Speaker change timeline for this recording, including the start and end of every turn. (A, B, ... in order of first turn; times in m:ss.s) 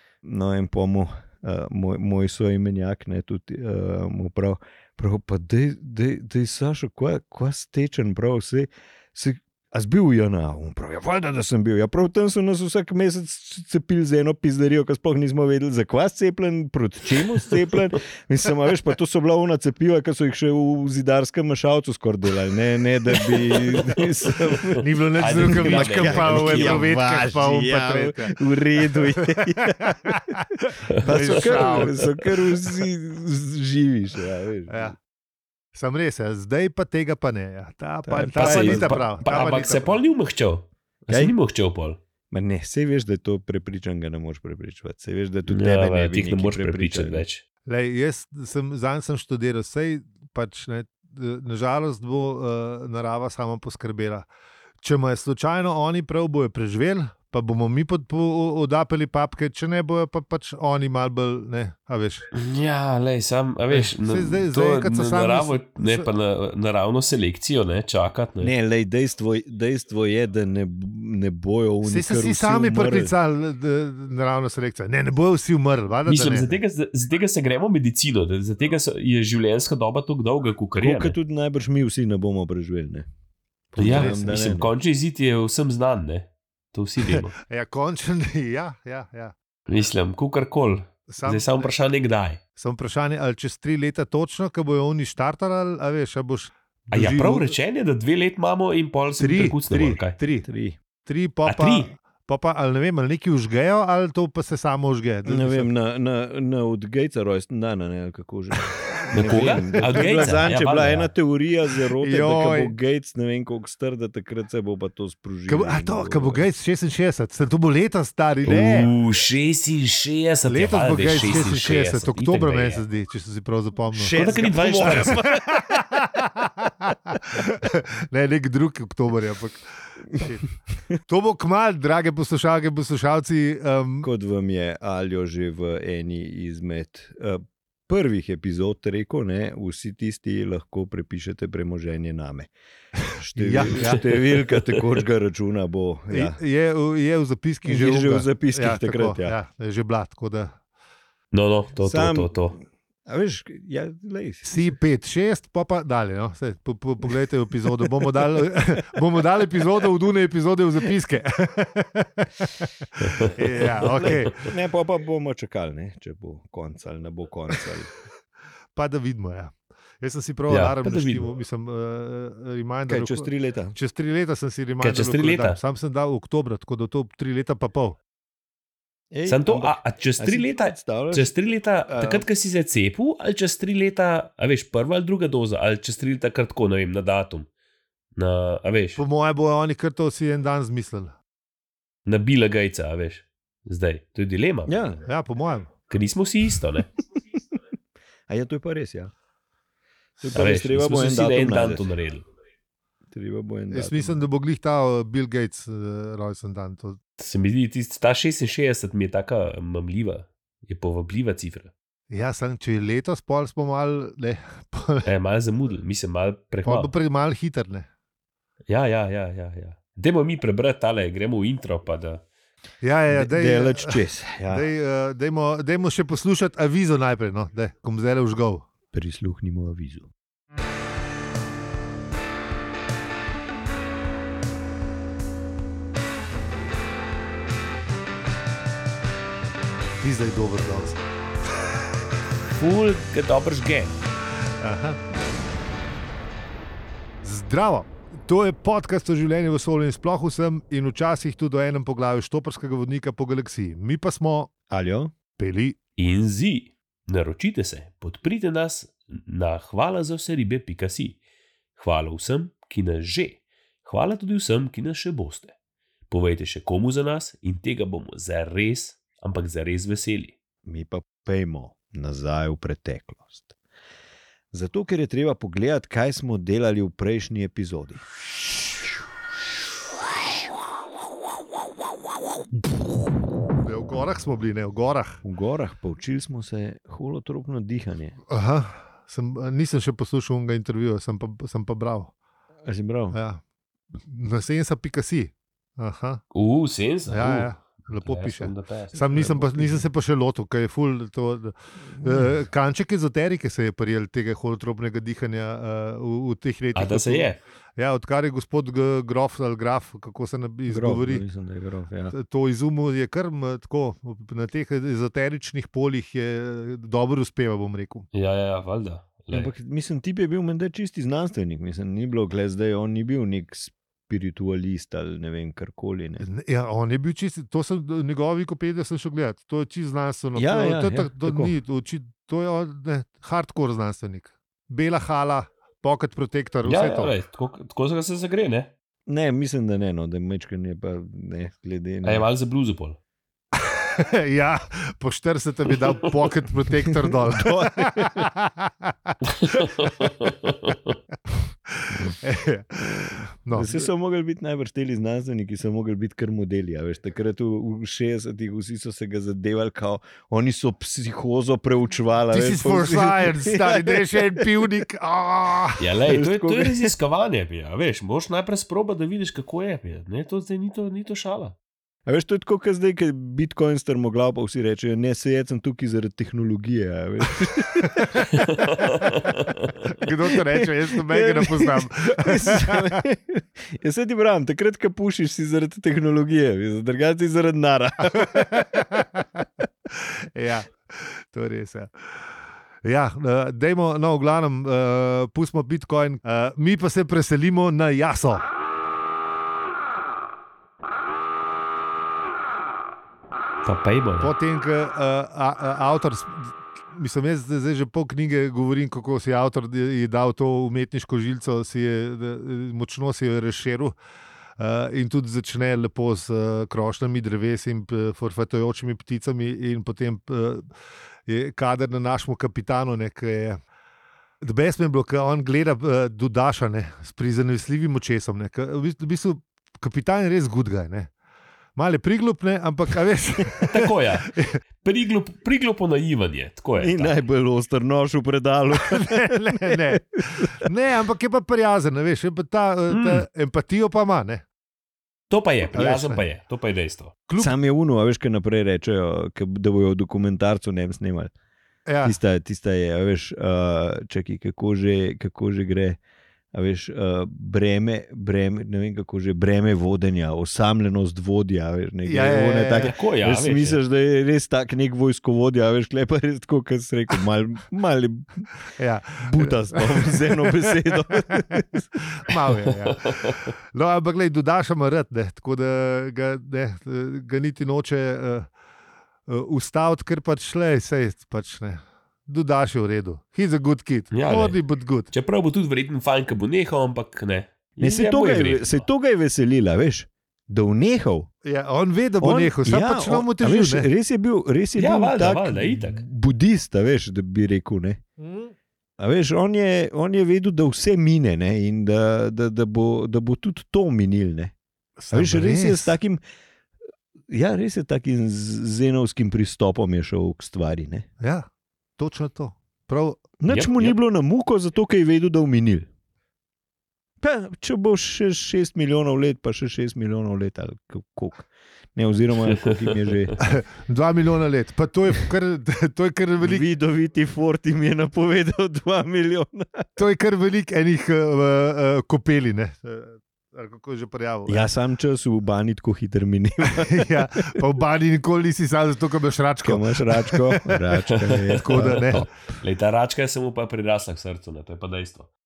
0:00.2-0:24.8 A
0:23.4-0:24.0 B
0:24.8-0:28.4 C
0:25.2-0:26.9 B
0:25.4-0:30.2 A
0:28.9-0:32.1 C
0:30.9-0:32.1 B
0:31.0-0:34.9 A
0:34.7-0:35.0 C
0:35.7-0:39.9 C
0:38.1-0:39.1 A
0:38.4-0:42.0 B
0:41.1-0:41.4 A
0:42.3-0:47.2 A
0:45.5-0:47.4 B
0:47.7-0:54.3 C
0:54.8-1:02.3 C
1:02.3-1:08.5 B
1:03.7-1:06.1 C
1:08.4-1:13.1 A
1:11.8-1:16.6 C
1:16.1-1:21.2 B
1:20.8-1:23.1 A
1:23.7-1:24.7 A
1:23.8-1:24.2 C
1:23.8-1:27.4 B
1:27.1-1:29.4 C
1:29.7-1:32.4 B
1:31.1-1:31.7 C
1:32.6-1:37.5 C
1:36.9-1:40.2 B
1:39.2-1:40.5 C
1:40.4-1:40.8 A
1:41.0-1:45.7 C
1:41.5-1:41.9 B
1:45.3-1:56.4 A
1:48.7-1:50.5 C
1:49.1-1:51.1 B
1:52.0-1:52.8 C
1:55.5-1:58.9 C
1:58.4-2:02.8 B
2:00.5-2:14.1 C
2:03.9-2:05.3 A
2:04.1-2:05.4 B
2:14.0-2:22.5 A
2:23.2-2:26.4 A
2:23.3-2:24.0 C
2:23.8-2:24.8 B
2:26.1-2:30.6 C
2:27.6-2:29.4 A
2:31.3-2:32.5 B
2:31.8-2:32.5 A
2:33.1-2:34.7 A
2:34.4-2:44.4 C
2:43.0-2:44.1 B
2:43.8-2:47.9 A
2:48.8-2:58.0 C
2:50.5-2:51.3 B
2:52.9-2:53.8 A
2:54.8-2:55.6 B
2:59.1-3:01.3 A
2:59.3-3:07.5 B
3:01.9-3:02.2 A
3:08.2-3:09.0 B
3:09.0-3:11.1 C
3:12.1-3:14.8 B
3:14.7-3:15.0 A
3:15.1-3:15.7 C
3:15.9-3:16.9 B
3:18.3-3:19.1 A
3:20.2-3:20.5 C
3:20.2-3:21.8 A
3:20.3-3:22.3 B
3:23.1-3:24.2 A
3:23.7-3:27.0 C
3:27.2-3:31.7 B
3:32.1-3:35.1 C
3:35.0-3:36.9 B
3:36.6-3:37.9 C
3:38.7-3:42.2 B
3:42.8-3:48.7 C
3:43.1-3:44.6 A
3:48.9-3:50.1 A
4:00.0-4:01.0 C
4:02.6-4:04.0 B
4:04.6-4:05.0 C
4:07.2-4:14.5 C
4:14.7-4:15.1 A
4:15.4-4:15.8 C
4:16.0-4:21.2 B
4:21.8-4:25.5 B
4:26.1-4:30.3 B
4:30.7-4:33.5 A
4:34.5-4:38.0 A
4:43.6-4:45.2 C
4:45.2-4:48.2 A
4:48.3-4:52.1 C
4:52.6-4:53.2 A
4:53.1-4:53.4 C
4:54.0-4:56.2 C
4:56.3-4:59.6 B
4:57.1-5:11.2 C
5:02.0-5:02.3 A
5:06.8-5:07.4 B
5:10.7-5:12.1 A
5:12.1-5:18.1 C
5:18.1-5:19.5 B
5:19.3-5:26.2 A
5:26.2-5:37.2 C
5:30.4-5:31.6 A
5:36.6-5:38.7 B
5:39.1-5:42.3 A
5:42.0-5:43.0 B
5:43.6-5:49.7 C
5:47.1-5:48.3 A
5:49.4-5:50.9 B
5:51.7-5:53.8 C
5:52.8-6:04.5 A
6:02.3-6:05.8 C
6:05.8-6:11.6 B
6:06.0-6:06.9 A
6:12.1-6:18.3 A
6:17.8-6:18.3 C
6:18.5-6:19.6 B
6:19.9-6:23.0 C
6:20.5-6:28.6 A
6:28.0-6:31.9 C
6:32.8-6:38.5 C
6:43.6-6:44.3 B
6:44.2-6:53.9 C
6:54.6-7:00.7 C
7:01.3-7:03.6 C
7:04.4-7:11.1 C
7:11.8-7:14.6 C
7:13.7-7:17.2 B
7:16.8-7:20.5 A
7:18.7-7:24.4 C
7:22.9-7:23.2 B
7:25.3-7:27.1 B
7:25.7-7:26.2 C
7:27.4-7:31.3 A
7:31.9-7:32.2 C
7:32.0-7:36.0 A
7:36.5-7:48.5 A
7:42.0-7:42.9 C
7:42.8-7:43.8 B
7:48.8-7:58.5 C
7:49.2-7:51.9 A
7:53.1-7:53.4 B
7:59.3-8:05.1 C
8:04.1-8:04.6 B
8:05.1-8:08.8 B
8:07.8-8:11.3 A
8:11.4-8:13.9 C
8:12.2-8:18.0 A
8:14.8-8:16.0 B
8:18.2-8:18.5 C
8:19.0-8:24.5 A
8:25.0-8:25.9 C
8:25.1-8:26.2 A
8:27.3-8:31.1 A
8:31.2-8:31.5 C
8:32.0-8:33.2 C
8:33.4-8:35.9 A
8:33.5-8:34.0 B
8:37.2-8:43.4 A
8:42.5-8:43.3 B
8:43.4-8:46.7 C
8:46.4-8:49.9 A
8:50.0-8:54.7 C
8:54.5-8:57.5 A
8:56.7-9:01.0 C
8:59.6-9:02.3 A
9:01.1-9:05.3 B
9:01.6-9:02.3 C